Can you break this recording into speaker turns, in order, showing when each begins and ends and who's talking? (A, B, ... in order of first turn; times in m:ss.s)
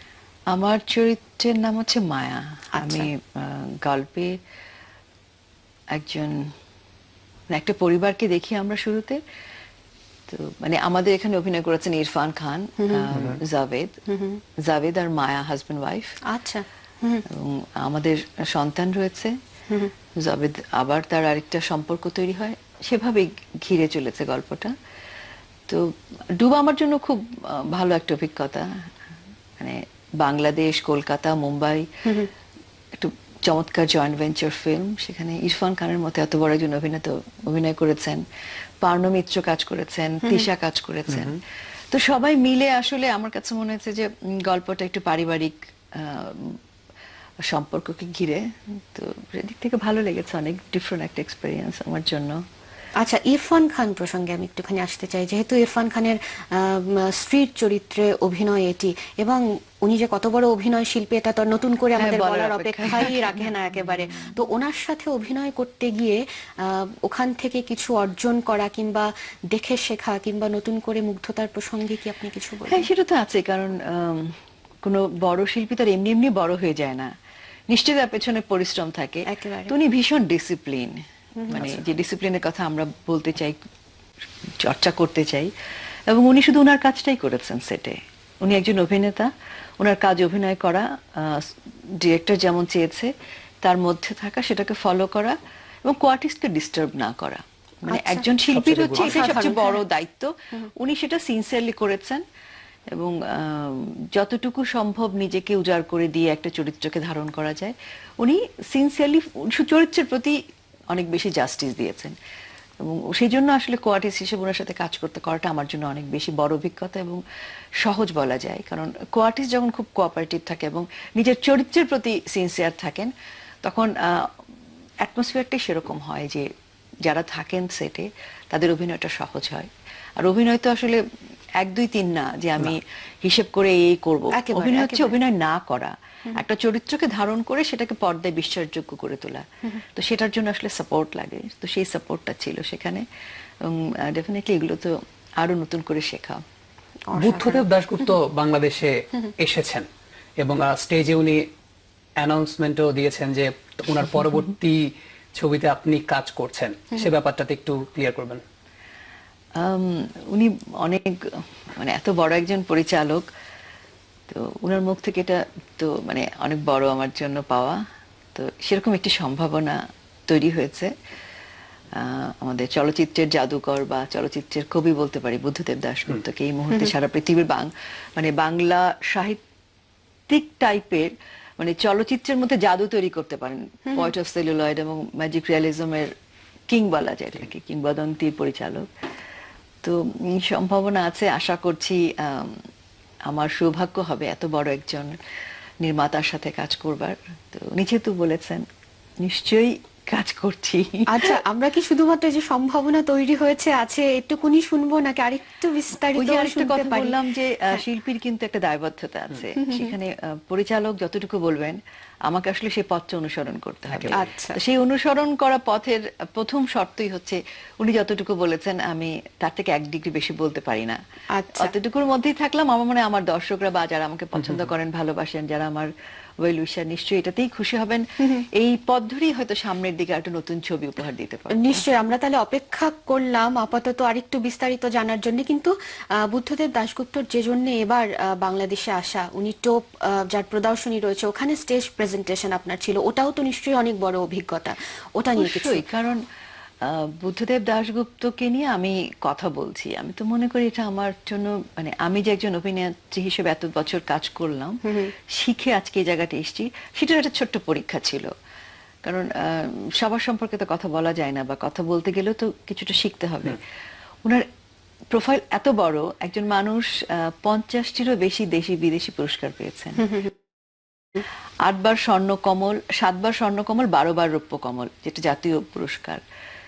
0:00.5-0:04.3 A
0:02.8-0:03.1 B
0:05.9-0:06.5 A
0:07.5-0:09.2 A
0:10.3-0:14.0 A
0:13.1-0:13.4 C
0:14.1-0:14.4 B
0:14.7-0:16.2 A
0:16.3-0:17.2 B
0:17.3-0:19.3 A
0:20.2-0:24.7 A
0:26.4-0:28.7 A
0:29.6-0:31.8 A
0:33.0-0:38.2 A
0:38.8-0:41.4 A
0:41.9-0:46.6 A
0:47.5-0:52.4 A
0:53.0-1:12.9 B
1:02.0-1:03.5 A
1:12.7-1:17.1 A
1:17.7-1:21.0 A
1:19.3-1:19.7 B
1:21.4-1:21.8 B
1:21.5-1:23.6 A
1:24.6-1:25.5 A
1:26.1-1:33.1 A
1:33.6-1:42.2 A
1:37.9-1:38.3 B
1:38.5-1:39.5 C
1:39.0-1:39.8 B
1:43.0-1:50.4 A
1:50.9-1:52.2 A
1:52.8-1:57.2 A
1:57.8-2:03.1 A
2:03.6-2:04.3 A
2:05.0-2:06.5 A
2:07.1-2:09.7 A
2:10.2-2:11.0 A
2:11.6-2:23.0 A
2:14.3-2:15.2 B
2:23.6-2:26.4 A
2:27.1-2:27.7 B
2:27.2-2:29.9 C
2:30.4-2:31.4 C
2:32.2-2:34.8 C
2:35.4-2:38.4 C
2:39.6-2:43.3 A
2:44.3-2:47.8 A
2:48.4-2:50.9 A
2:52.0-2:59.4 A
3:00.3-3:06.1 A
3:06.7-3:08.9 A
3:09.8-3:12.6 A
3:13.3-3:15.2 A
3:15.8-3:18.6 A
3:19.2-3:21.4 A
3:21.1-3:27.2 B
3:26.2-3:41.0 A
3:29.6-3:29.9 B
3:33.9-3:34.2 C
3:34.1-3:34.6 B
3:41.3-3:41.7 B
3:41.6-3:45.9 A
3:44.4-3:44.7 C
3:46.4-3:51.8 A
3:51.6-4:05.8 B
4:05.4-4:06.2 A
4:06.8-4:14.8 A
4:15.3-4:18.3 A
4:19.1-4:23.6 A
4:25.1-4:30.2 A
4:31.6-4:36.2 A